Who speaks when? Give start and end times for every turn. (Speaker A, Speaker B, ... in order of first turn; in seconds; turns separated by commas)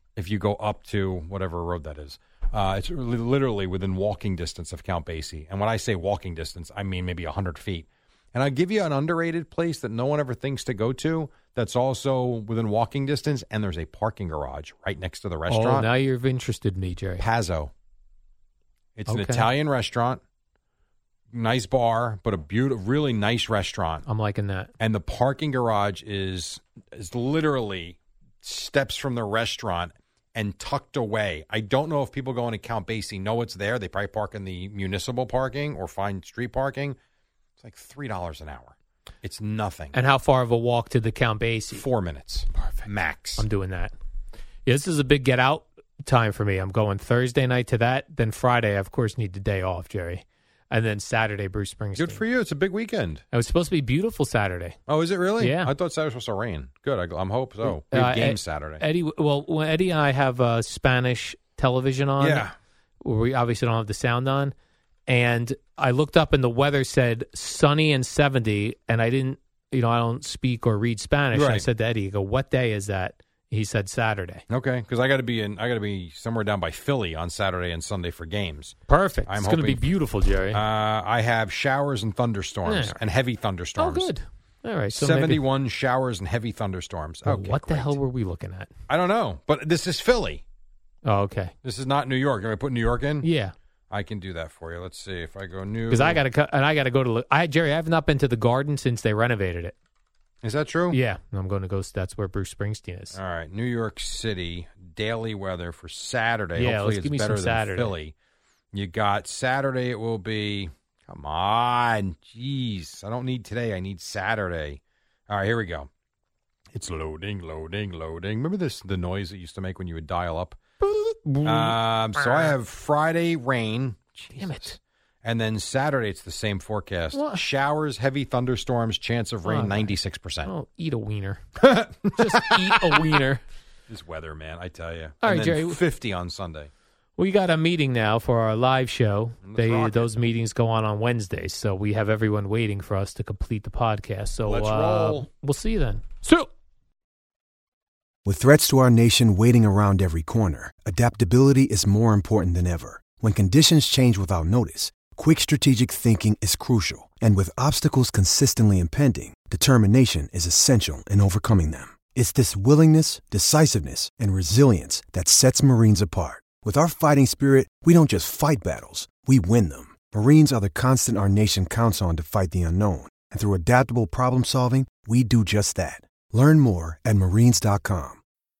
Speaker A: 0.1-15.9, Speaker B: 15.5-17.2, Speaker A: 17.2-17.7, Speaker A: 18.9-20.2, Speaker B: 19.1-19.5, Speaker A: 21.3-24.0, Speaker B: 24.1-24.7, Speaker A: 24.8-37.0, Speaker A: 37.6-39.9, Speaker B: 39.9-41.8, Speaker A: 41.7-43.4, Speaker B: 42.6-42.9, Speaker B: 43.4-43.9, Speaker B: 44.6-52.2, Speaker A: 52.0-53.2, Speaker B: 53.3-54.8, Speaker A: 54.9-58.8, Speaker B: 55.4-55.7, Speaker B: 57.6-62.5, Speaker A: 62.2-62.5, Speaker B: 63.0-64.5, Speaker B: 65.1-74.4, Speaker A: 71.3-71.6, Speaker A: 74.5-78.8, Speaker B: 78.9-80.6, Speaker A: 79.3-79.8, Speaker A: 80.5-84.1, Speaker B: 82.7-83.0, Speaker B: 83.8-85.4, Speaker A: 84.9-88.0, Speaker B: 87.2-88.7, Speaker A: 88.9-90.4, Speaker B: 91.0-91.5, Speaker A: 91.6-93.3, Speaker B: 93.2-93.5, Speaker A: 93.9-96.2, Speaker B: 95.9-99.7, Speaker A: 100.4-101.0, Speaker B: 100.9-103.2, Speaker A: 103.1-108.1, Speaker B: 106.6-107.9, Speaker A: 108.7-115.9, Speaker A: 116.7-120.6, Speaker B: 120.8-122.5, Speaker A: 121.4-130.5, Speaker B: 124.3-124.8, Speaker B: 127.1-127.4, Speaker B: 129.4-131.4, Speaker A: 131.6-133.0, Speaker B: 132.1-133.4, Speaker A: 133.9-136.7, Speaker B: 135.2-135.8, Speaker B: 137.2-146.5, Speaker A: 139.4-140.1, Speaker A: 144.4-145.3, Speaker C: 148.2-178.2